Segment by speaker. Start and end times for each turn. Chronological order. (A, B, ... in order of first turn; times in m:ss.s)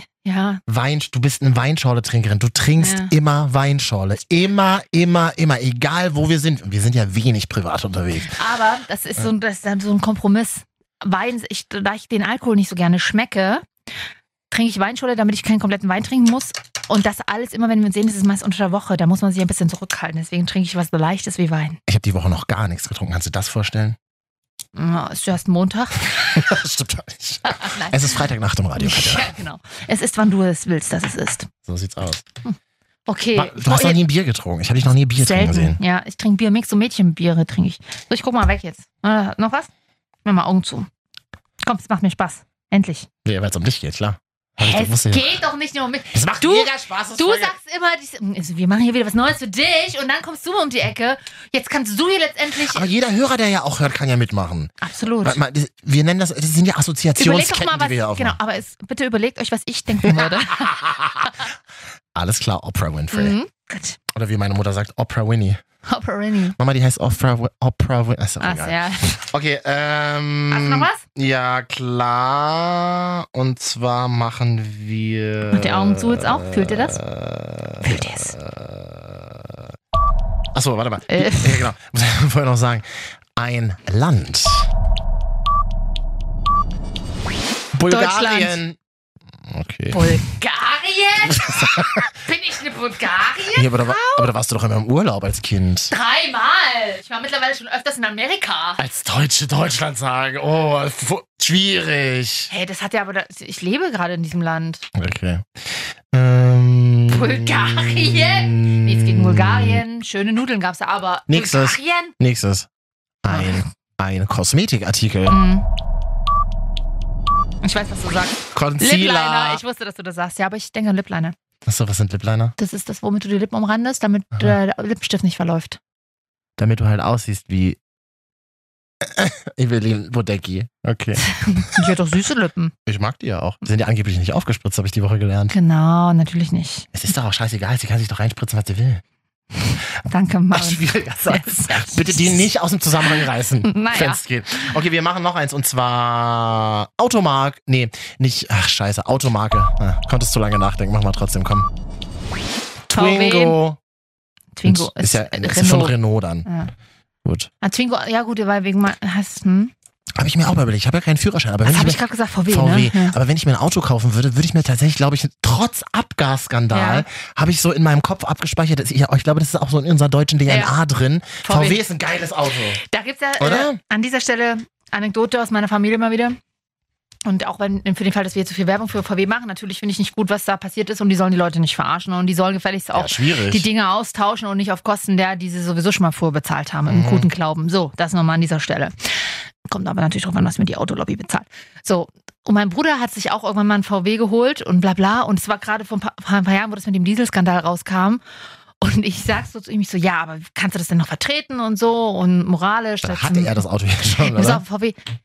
0:00.2-0:00.6 A
0:00.7-0:08.4 B
0:02.8-0:03.1 A
0:08.2-0:13.6 A
0:14.5-0:21.8 A
0:21.9-0:24.0 B
0:24.7-0:26.5 A
0:26.3-0:29.3 B
0:27.4-0:28.2 A
0:28.8-0:31.5 A
0:31.6-0:32.2 B
0:32.4-0:34.0 A
0:33.3-0:35.8 B
0:35.2-0:39.7 A
0:40.2-0:40.9 A
0:41.6-0:43.1 A
0:43.2-0:45.4 B
0:44.6-0:52.9 A
0:46.1-0:47.5 B
0:52.7-0:58.4 B
0:54.8-0:55.4 A
0:57.2-1:00.7 A
1:00.0-1:01.3 B
1:02.1-1:03.4 B
1:03.1-1:04.0 A
1:04.1-1:05.6 B
1:05.9-1:06.6 A
1:06.6-1:19.6 B
1:08.4-1:09.1 A
1:10.5-1:11.0 A
1:15.5-1:17.0 A
1:17.8-1:18.4 A
1:20.5-1:24.7 B
1:21.1-1:21.6 A
1:27.7-1:28.8 B
1:27.9-1:28.6 A
1:29.4-1:30.2 B
1:29.9-1:34.3 A
1:31.3-1:32.1 B
1:33.5-1:35.9 B
1:35.9-1:38.8 A
1:38.8-1:42.5 B
1:42.5-1:44.8 A
1:44.9-1:49.8 B
1:47.1-1:52.1 A
1:51.3-1:52.7 B
1:53.2-1:55.4 B
1:53.3-1:53.6 A
1:55.3-1:55.6 A
1:57.6-2:01.3 A
1:58.5-1:59.6 B
2:01.6-2:02.5 B
2:02.6-2:05.8 A
2:06.6-2:07.8 B
2:09.0-2:11.9 B
2:11.4-2:12.7 A
2:12.8-2:15.5 B
2:15.5-2:16.9 A
2:16.9-2:19.0 B
2:19.6-2:22.4 A
2:20.5-2:31.7 B
2:23.0-2:24.2 A
2:32.9-2:33.8 B
2:32.9-2:33.6 A
2:34.5-2:36.7 A
2:34.6-2:36.4 B
2:37.2-2:37.5 B
2:37.6-2:39.7 A
2:40.2-2:52.8 B
2:41.6-2:43.2 A
2:46.7-2:47.0 A
2:50.4-2:50.8 A
2:51.4-2:51.8 A
2:52.9-2:56.4 A
2:53.4-2:53.8 B
2:57.2-3:18.2 A
3:02.9-3:03.7 B
3:06.9-3:07.3 B
3:18.8-3:23.6 A
3:23.0-3:24.6 B
3:24.2-3:25.0 A